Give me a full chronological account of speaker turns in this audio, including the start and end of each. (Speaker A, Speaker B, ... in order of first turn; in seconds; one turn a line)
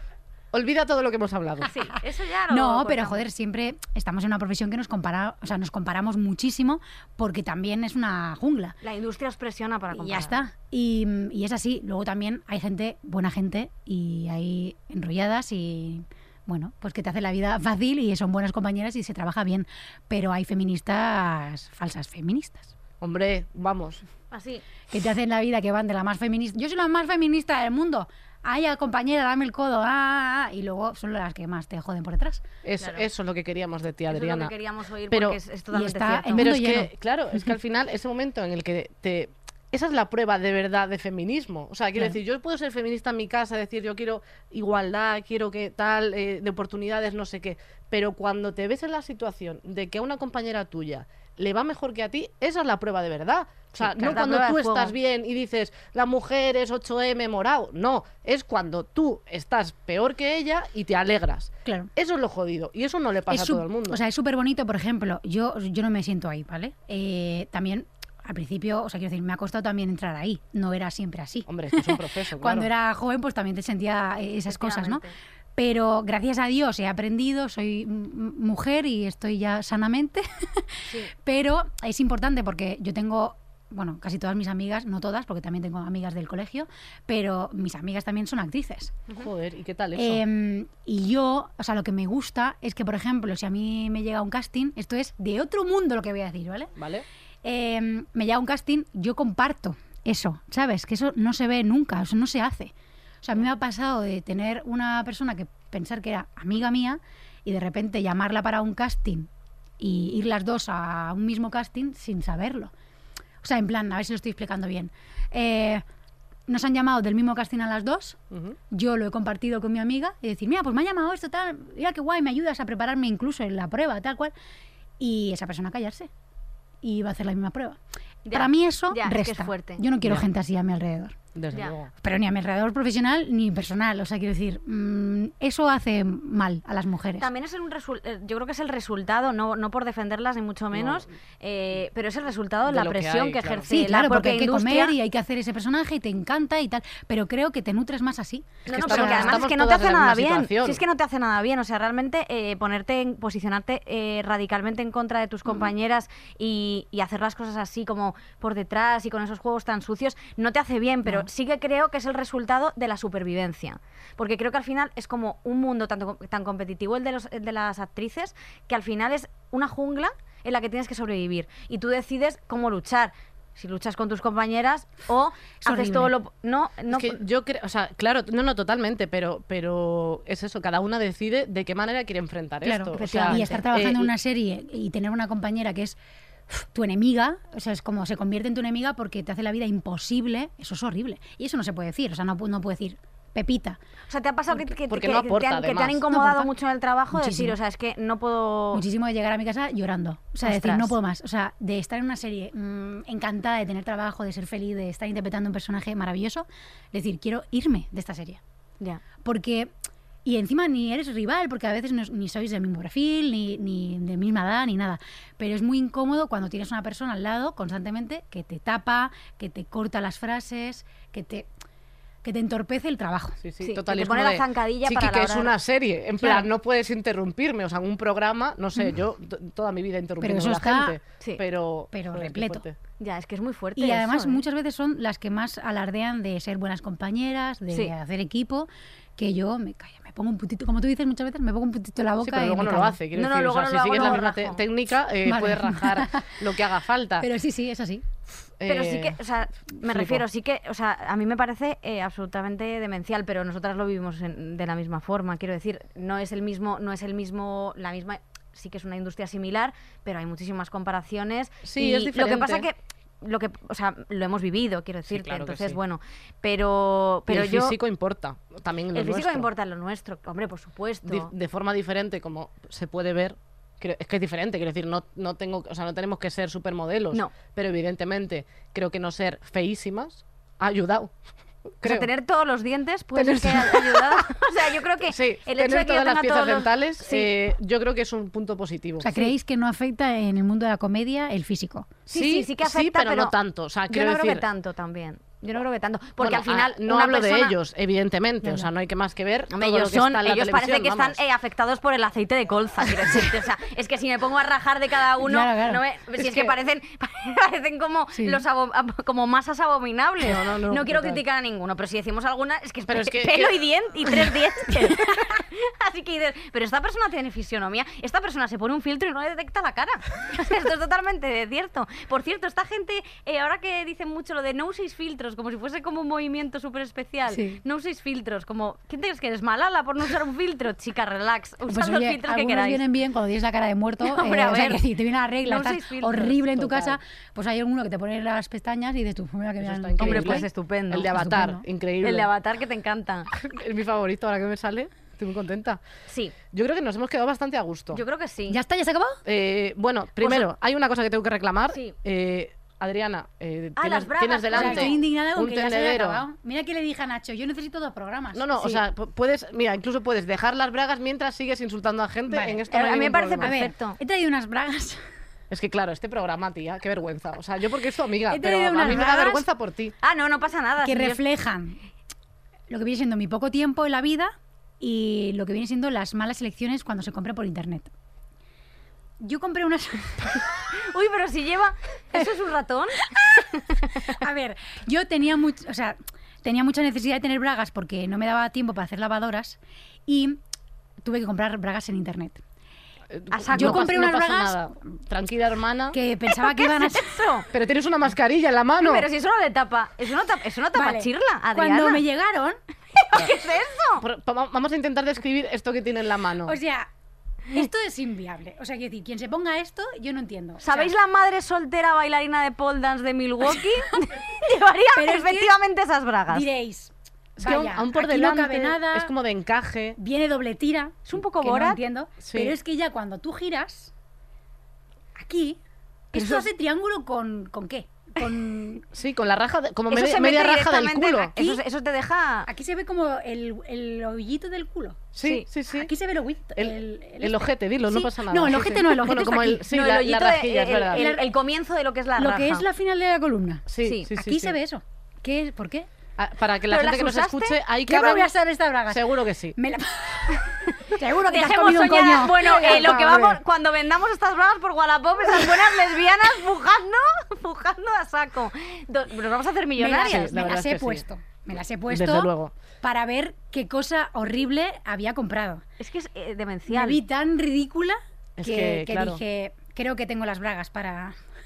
Speaker A: 0.5-1.7
Speaker B: 1.6-3.2
Speaker C: 2.5-8.8
Speaker B: 8.8-10.4
Speaker C: 9.9-22.7
Speaker A: 23.0-24.0
Speaker B: 24.3-24.6
Speaker C: 24.9-32.5
Speaker A: 32.6-34.5
Speaker B: 32.8-33.0
Speaker B: 34.1-36.5
Speaker A: 35.1-35.4
Speaker C: 35.7-36.9
Speaker A: 36.3-64.0
Speaker B: 53.8-54.9
Speaker C: 61.6-61.9
Speaker C: 63.3-75.0
Speaker A: 71.5-72.7
Speaker B: 74.5-75.1
Speaker C: 75.5-89.0
Speaker B: 80.9-81.1
Speaker A: 89.2-90.2
Speaker C: 90.0-96.7
Speaker A: 96.8-97.0
Speaker C: 97.4-109.3
Speaker C: 109.8-112.7
Speaker C: 113.4-115.8
Speaker C: 116.5-118.2
Speaker A: 118.3-118.6
Speaker C: 118.7-124.3
Speaker C: 125.0-126.1
Speaker C: 126.8-127.8
Speaker B: 128.3-129.8
Speaker C: 128.3-131.2
Speaker A: 131.3-131.9
Speaker C: 132.0-137.3
Speaker B: 137.2-144.9
Speaker A: 140.7-141.1
Speaker A: 142.7-143.7
Speaker C: 143.7-149.4
Speaker B: 148.7-177.2
Speaker A: 148.7-150.8
Speaker C: 175.6-176.1
Speaker A: 176.9-184.1
Speaker C: 182.6-186.0
Speaker B: 182.9-183.6
Speaker C: 186.5-193.8
Speaker B: 194.1-198.8
Speaker A: 194.9-196.0
Speaker C: 196.1-196.5
Speaker C: 197.1-197.6
Speaker C: 198.7-208.4
Speaker B: 200.4-200.9
Speaker C: 209.2-209.7
Speaker C: 210.2-221.5
Speaker C: 222.2-223.4
Speaker A: 223.4-232.8
Speaker B: 223.6-225.5
Speaker C: 226.2-226.5
Speaker C: 230.2-231.0
Speaker C: 231.9-232.6
Speaker B: 233.0-234.4
Speaker C: 233.8-243.0
Speaker A: 242.2-247.3
Speaker B: 243.1-244.6
Speaker C: 245.2-246.3
Speaker C: 247.2-248.1
Speaker A: 248.6-249.2
Speaker B: 248.7-267.8
Speaker A: 249.8-250.2
Speaker A: 261.6-262.7
Speaker A: 265.1-265.8
Speaker A: 267.3-269.5
Speaker B: 268.9-271.3
Speaker A: 271.1-281.1
Speaker A: 281.8-282.1
Speaker B: 281.8-287.3
Speaker A: 283.1-284.4
Speaker A: 285.0-289.2
Speaker C: 289.0-292.0
Speaker B: 292.1-293.3
Speaker A: 292.1-294.4
Speaker B: 293.9-297.6
Speaker A: 296.2-301.2
Speaker C: 298.4-298.7
Speaker B: 299.5-332.8
Speaker C: 305.2-305.8
Speaker A: 306.2-306.6
Speaker C: 308.1-308.4
Speaker A: 310.2-311.2
Speaker A: 312.9-314.1
Speaker C: 327.3-327.6
Speaker C: 331.7-340.5
Speaker B: 334.0-334.8
Speaker B: 335.4-336.4
Speaker A: 336.4-337.0
Speaker A: 339.6-342.3
Speaker B: 340.0-341.1
Speaker C: 341.1-341.6
Speaker B: 342.0-343.3
Speaker A: 343.3-345.8
Speaker B: 346.1-346.3
Speaker A: 346.5-348.0
Speaker B: 347.9-348.6
Speaker C: 348.5-349.2
Speaker A: 349.2-356.2
Speaker B: 350.2-350.5
Speaker B: 353.8-355.0
Speaker C: 354.5-358.5
Speaker A: 358.3-363.5
Speaker C: 362.3-362.7
Speaker B: 362.7-364.0
Speaker C: 363.4-365.0
Speaker A: 365.5-369.9
Speaker C: 368.3-369.4
Speaker B: 368.9-369.3
Speaker B: 370.0-371.2
Speaker C: 370.8-371.8
Speaker C: 372.7-377.9
Speaker C: 379.2-380.5
Speaker B: 380.7-383.0
Speaker C: 383.1-390.4
Speaker B: 383.6-384.1
Speaker C: 391.0-392.4
Speaker A: 393.1-396.0
Speaker B: 393.3-393.9
Speaker C: 393.5-394.7
Speaker C: 395.9-397.2
Speaker B: 396.3-397.5
Speaker A: 397.5-399.1
Speaker B: 398.8-402.0
Speaker C: 400.7-402.6
Speaker B: 402.9-404.0
Speaker A: 404.0-406.6
Speaker C: 406.4-406.9
Speaker C: 407.5-410.9
Speaker B: 410.6-416.5
Speaker C: 414.9-415.5
Speaker C: 416.3-419.1
Speaker A: 417.4-420.0
Speaker C: 420.0-423.9
Speaker B: 421.1-421.8
Speaker A: 422.2-422.6
Speaker C: 425.1-425.6
Speaker C: 426.1-428.9
Speaker B: 426.1-426.5
Speaker A: 428.9-431.4
Speaker B: 429.9-432.5
Speaker C: 432.5-435.1
Speaker A: 435.1-435.9
Speaker C: 435.7-439.7
Speaker A: 436.6-441.1
Speaker B: 439.7-442.6
Speaker C: 440.9-441.3
Speaker C: 442.1-445.9
Speaker A: 443.7-444.6
Speaker B: 443.8-444.1
Speaker A: 446.2-448.3
Speaker B: 446.7-447.6
Speaker C: 447.9-453.2
Speaker A: 448.9-449.6
Speaker B: 451.3-460.5
Speaker A: 452.6-453.4
Speaker C: 459.8-462.3
Speaker A: 460.0-461.0
Speaker A: 461.9-462.5
Speaker C: 462.8-465.6
Speaker B: 465.8-467.0
Speaker C: 466.7-471.2
Speaker A: 468.4-469.2